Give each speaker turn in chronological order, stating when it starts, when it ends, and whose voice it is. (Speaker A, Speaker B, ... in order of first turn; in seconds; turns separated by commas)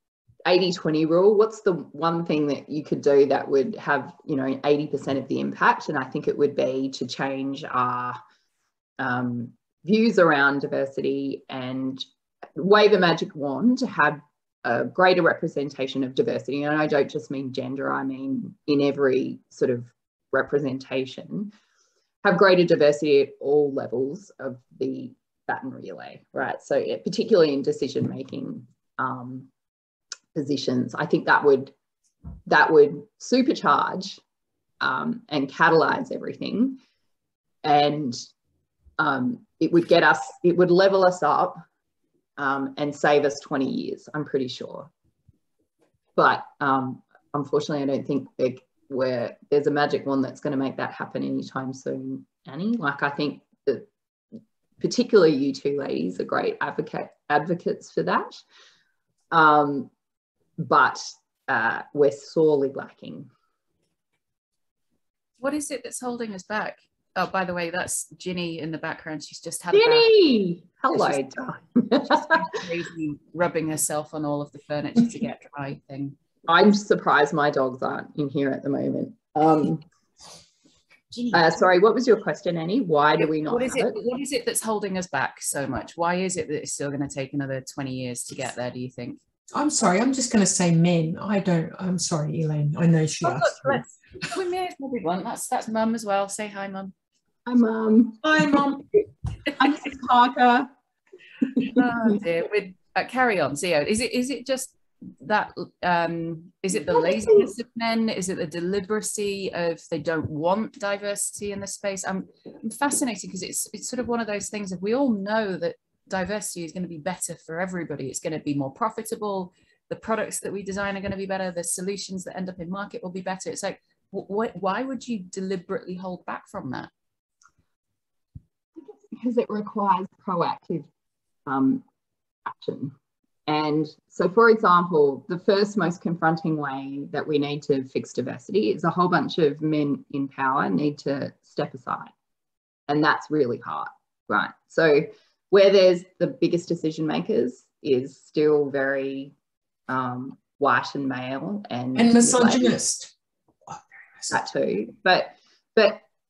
Speaker A: 0.5-8.2, Speaker A: 9.0-12.1, Speaker A: 12.6-21.5, Speaker A: 22.2-29.5, Speaker A: 30.3-31.7, Speaker A: 32.5-34.2, Speaker A: 34.8-36.8, Speaker A: 37.6-38.2, Speaker A: 39.0-41.6, Speaker A: 42.4-44.9, Speaker A: 46.1-53.9, Speaker A: 54.8-58.4, Speaker A: 59.3-59.9, Speaker A: 60.6-63.3, Speaker B: 65.4-70.1, Speaker A: 69.7-72.6, Speaker B: 70.9-71.2, Speaker B: 72.0-76.2, Speaker A: 76.5-79.8, Speaker B: 81.1-81.6, Speaker A: 81.3-84.0, Speaker B: 83.3-89.2, Speaker C: 89.5-93.8, Speaker B: 93.2-96.9, Speaker A: 97.5-98.5, Speaker C: 98.2-98.9, Speaker A: 99.5-100.7, Speaker B: 101.7-126.9, Speaker A: 106.8-107.5, Speaker A: 128.8-130.9, Speaker A: 131.4-131.8, Speaker A: 132.4-132.9, Speaker A: 133.5-142.1, Speaker A: 142.9-149.3, Speaker A: 149.9-152.8, Speaker C: 151.9-153.1, Speaker C: 153.7-154.4, Speaker A: 154.3-156.0